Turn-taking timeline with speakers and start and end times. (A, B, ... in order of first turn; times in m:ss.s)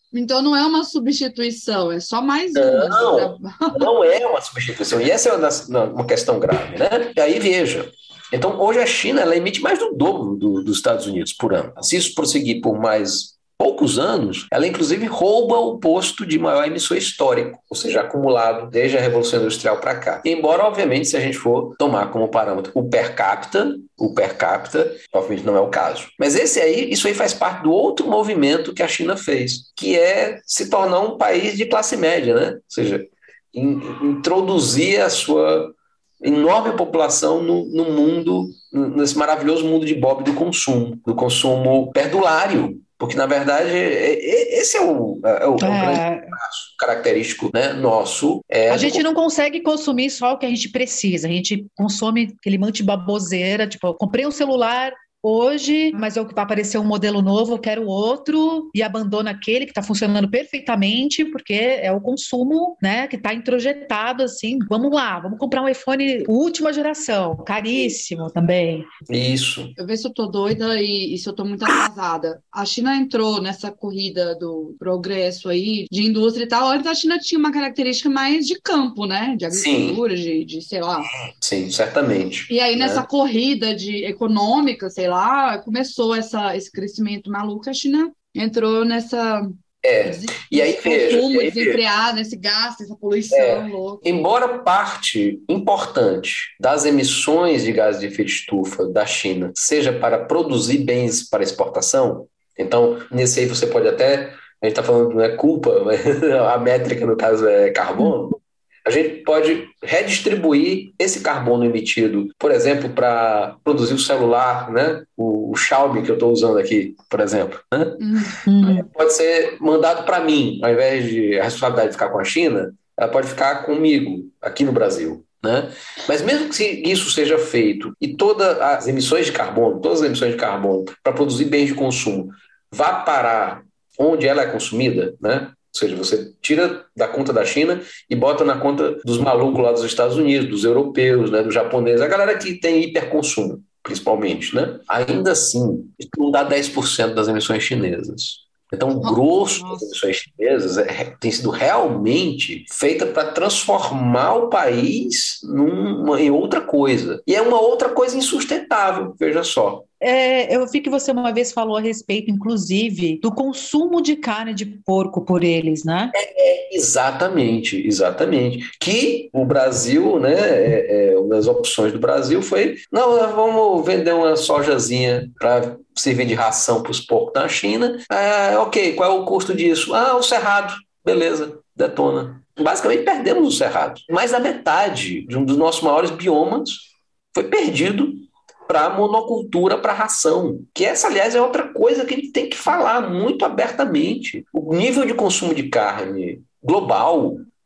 0:00.1-0:03.9 A
0:02.5-0:49.0 B
0:45.6-0:46.4 C
0:48.7-1:08.9 C
1:09.1-1:09.7 B
1:09.8-1:21.1 A
1:19.5-1:20.0 B
1:21.2-1:23.0 B
1:22.5-1:34.0 A
1:29.8-1:31.8 B
1:33.3-2:39.9 B
1:58.0-1:58.4 A
1:58.4-1:58.8 C
2:29.1-2:29.9 A
2:40.0-2:46.1 C
2:46.1-3:17.5 B